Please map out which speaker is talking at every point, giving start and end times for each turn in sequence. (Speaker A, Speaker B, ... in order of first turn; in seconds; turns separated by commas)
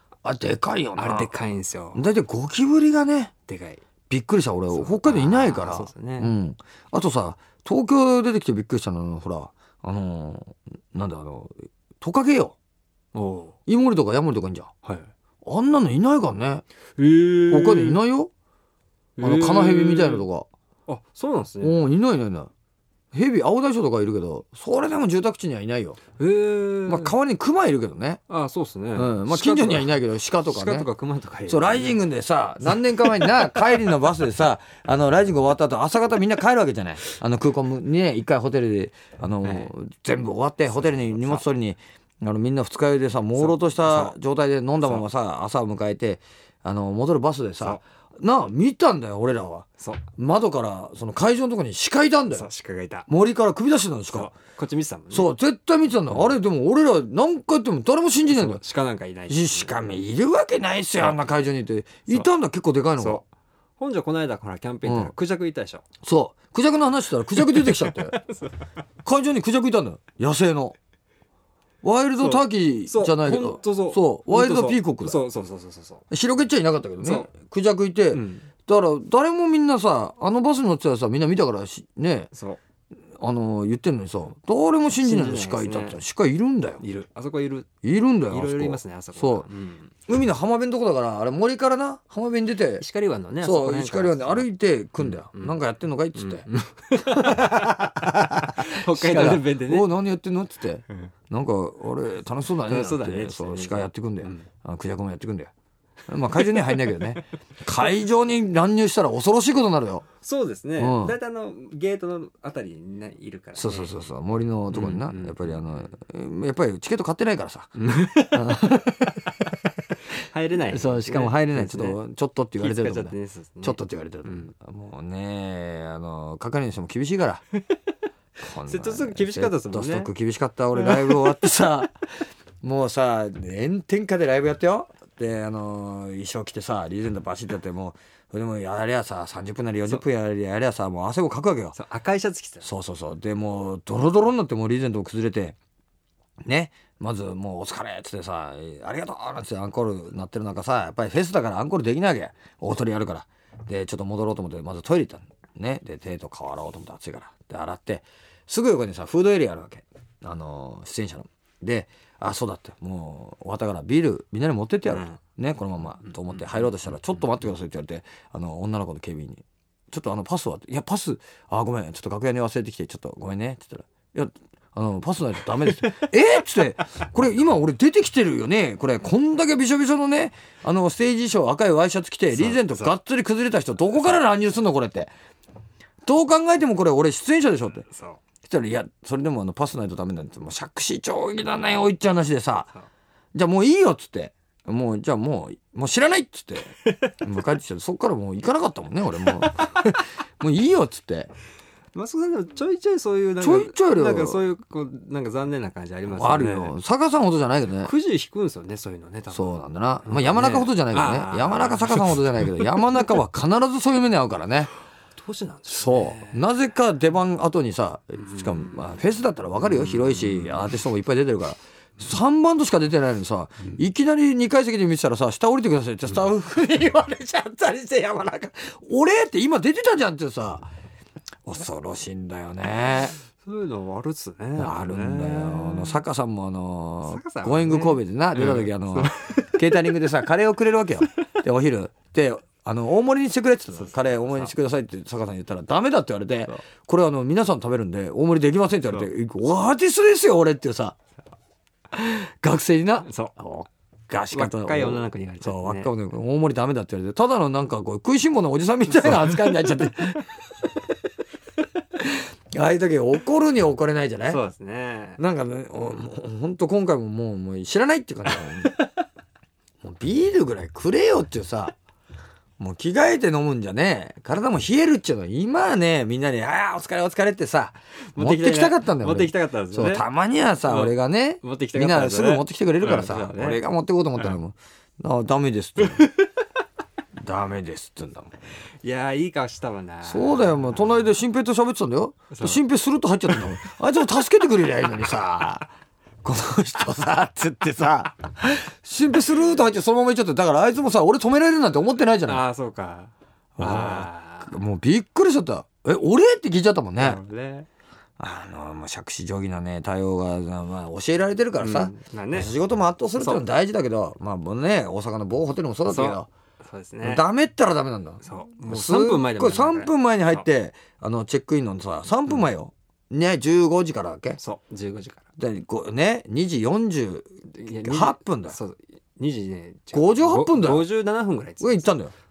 Speaker A: 0.2-1.3, Speaker B: 1.0-2.0, Speaker A: 1.9-3.3, Speaker B: 3.5-3.8, Speaker A: 4.1-12.5, Speaker B: 4.7-6.3, Speaker B: 13.1-13.5, Speaker A: 13.7-14.7, Speaker B: 14.8-15.1, Speaker A: 15.4-16.6, Speaker B: 17.0-18.0, Speaker A: 17.5-18.3, Speaker B: 19.2-20.3, Speaker A: 19.2-20.5, Speaker B: 20.9-21.9, Speaker A: 21.6-22.5, Speaker A: 23.1-26.0, Speaker B: 26.2-27.1, Speaker A: 26.9-28.2, Speaker B: 28.3-32.0, Speaker A: 28.9-30.9, Speaker A: 31.5-52.5, Speaker B: 32.6-33.2, Speaker B: 39.4-39.7, Speaker B: 40.7-41.4, Speaker B: 43.3-44.1, Speaker B: 49.8-50.0, Speaker B: 52.3-53.1, Speaker A: 53.1-54.3, Speaker B: 54.1-55.3, Speaker A: 55.1-58.6, Speaker B: 58.3-59.9, Speaker A: 59.3-63.2, Speaker B: 61.0-61.3, Speaker B: 63.0-63.2, Speaker B: 63.8-65.8, Speaker A: 64.8-65.1, Speaker A: 66.0-68.2, Speaker B: 67.4-68.7, Speaker A: 69.0-70.8, Speaker A: 71.8-75.2, Speaker B: 72.2-76.0, Speaker A: 76.1-82.3, Speaker B: 77.0-77.3, Speaker B: 78.1-78.5, Speaker B: 82.3-82.6, Speaker A: 83.2-86.8, Speaker B: 85.0-86.0, Speaker B: 86.8-87.7, Speaker A: 87.8-89.5, Speaker B: 88.3-89.9, Speaker A: 90.1-92.8, Speaker B: 92.8-94.5, Speaker A: 93.4-105.5, Speaker B: 95.0-95.6, Speaker B: 96.2-99.9, Speaker B: 102.6-104.5, Speaker A: 106.1-110.0, Speaker B: 106.4-107.1, Speaker B: 110.2-113.9, Speaker A: 110.8-111.2, Speaker A: 113.5-117.8, Speaker B: 114.7-115.7, Speaker B: 117.8-118.6, Speaker A: 118.3-119.3, Speaker B: 120.3-122.0, Speaker A: 120.7-127.4, Speaker B: 122.6-124.5, Speaker A: 128.4-132.1, Speaker B: 128.6-130.1, Speaker B: 130.8-131.2, Speaker A: 132.6-141.8, Speaker B: 141.7-142.7, Speaker A: 142.6-145.6, Speaker A: 146.4-185.1, Speaker B: 164.9-165.2, Speaker B: 166.0-166.9, Speaker B: 182.3-182.9, Speaker A: 186.0-187.9, Speaker B: 187.8-188.2, Speaker A: 188.4-192.7, Speaker A: 193.3-201.3, Speaker B: 201.9-206.8, Speaker A: 203.4-204.4, Speaker A: 206.1-207.9, Speaker B: 207.8-212.7, Speaker A: 209.3-214.7, Speaker B: 215.2-216.4, Speaker A: 215.7-230.7, Speaker B: 218.2-218.8, Speaker B: 219.6-220.7, Speaker A: 231.4-233.2, Speaker B: 233.4-236.0, Speaker A: 234.6-251.0, Speaker B: 237.0-239.6, Speaker B: 243.7-244.5, Speaker A: 251.9-260.4, Speaker B: 253.0-253.3, Speaker B: 254.3-255.9, Speaker A: 262.0-264.4, Speaker B: 264.2-265.2, Speaker A: 265.2-268.8, Speaker A: 269.8-271.7, Speaker A: 272.6-286.1, Speaker B: 278.1-280.1, Speaker B: 280.6-283.6, Speaker A: 287.2-288.3, Speaker B: 288.8-291.1, Speaker A: 290.0-295.7, Speaker B: 292.3-292.6, Speaker A: 296.2-302.4, Speaker B: 302.2-304.6, Speaker A: 303.6-307.2, Speaker B: 307.0-307.7, Speaker A: 308.2-316.3, Speaker B: 311.6-312.5, Speaker B: 313.1-313.4, Speaker B: 315.9-317.2, Speaker A: 317.0-324.4, Speaker B: 318.2-320.4, Speaker B: 324.4-325.2, Speaker A: 325.4-328.6, Speaker B: 327.5-331.9, Speaker A: 329.9-330.9, Speaker A: 331.6-332.1